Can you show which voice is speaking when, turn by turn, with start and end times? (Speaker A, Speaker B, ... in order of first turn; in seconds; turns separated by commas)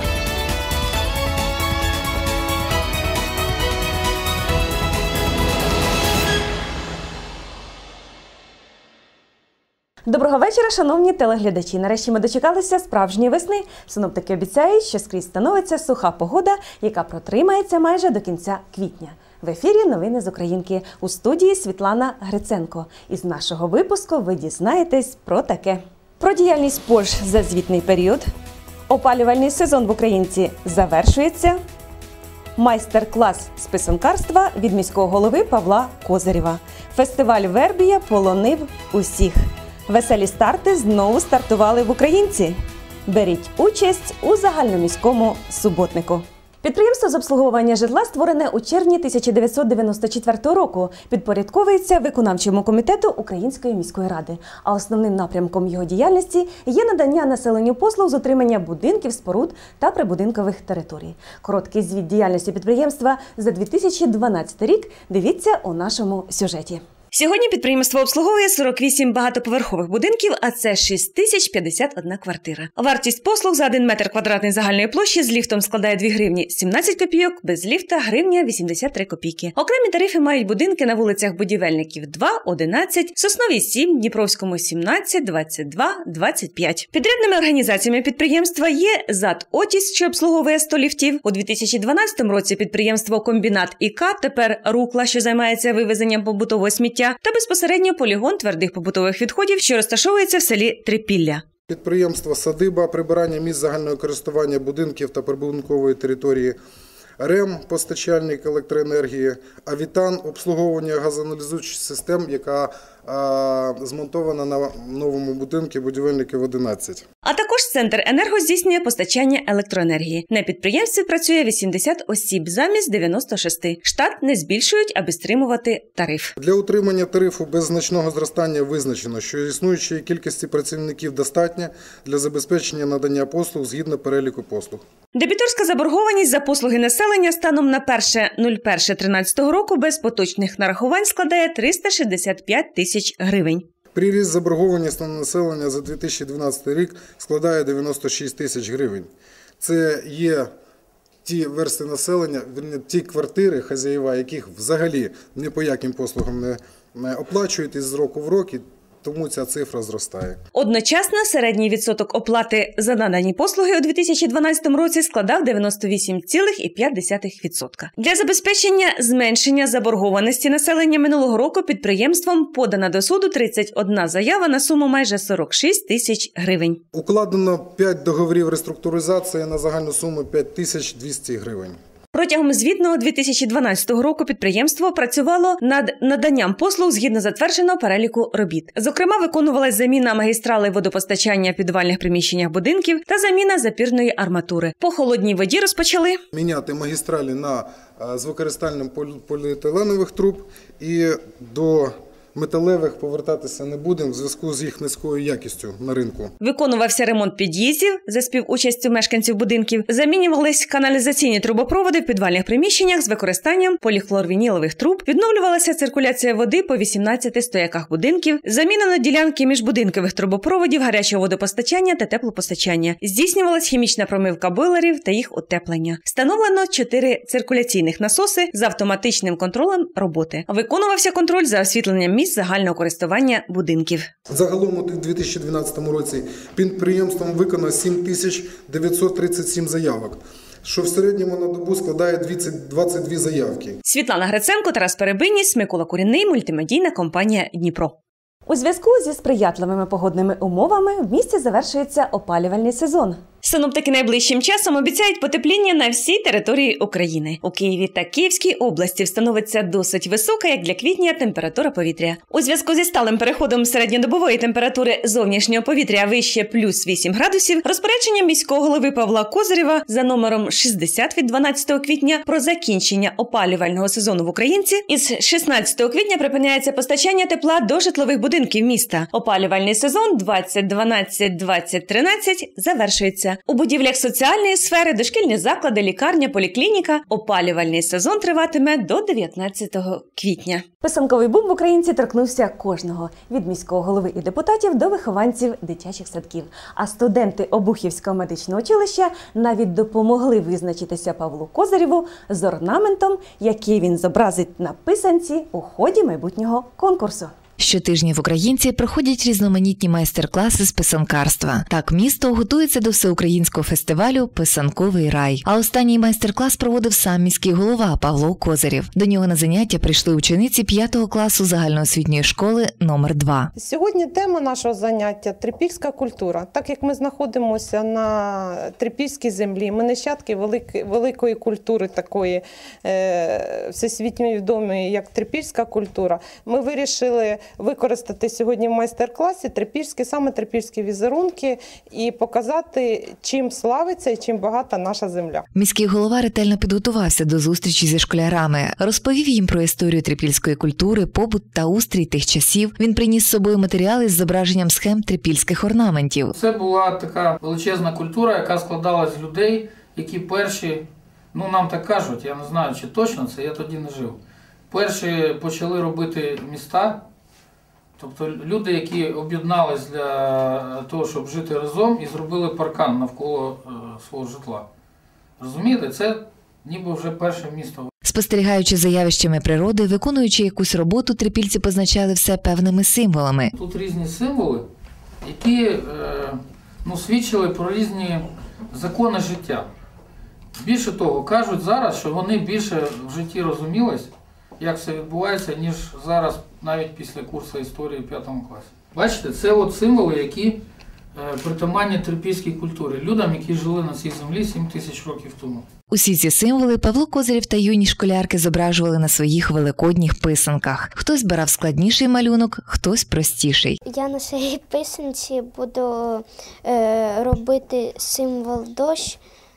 Speaker A: 10.1-28.3, Speaker A: 28.9-31.6, Speaker A: 32.6-101.4, Speaker B: 101.7-106.6, Speaker B: 107.2-117.0, Speaker A: 117.2-126.3, Speaker B: 126.4-134.8, Speaker A: 135.1-143.7, Speaker B: 143.9-149.1, Speaker B: 149.6-150.5, Speaker B: 151.2-160.4, Speaker A: 160.5-176.8, Speaker B: 176.9-181.8, Speaker A: 182.1-196.2, Speaker B: 196.3-206.3, Speaker A: 206.4-234.1, Speaker B: 234.3-243.8, Speaker A: 243.8-307.3, Speaker C: 307.6-323.5, Speaker D: 323.6-345.4, Speaker C: 345.6-356.4, Speaker E: 356.4-364.2, Speaker E: 364.7-367.0, Speaker E: 368.0-374.7, Speaker E: 375.4-377.9, Speaker C: 378.0-383.5, Speaker E: 383.6-384.7, Speaker E: 385.2-389.7, Speaker E: 390.6-400.6, Speaker E: 401.1-405.6, Speaker C: 405.9-413.8, Speaker F: 413.9-419.2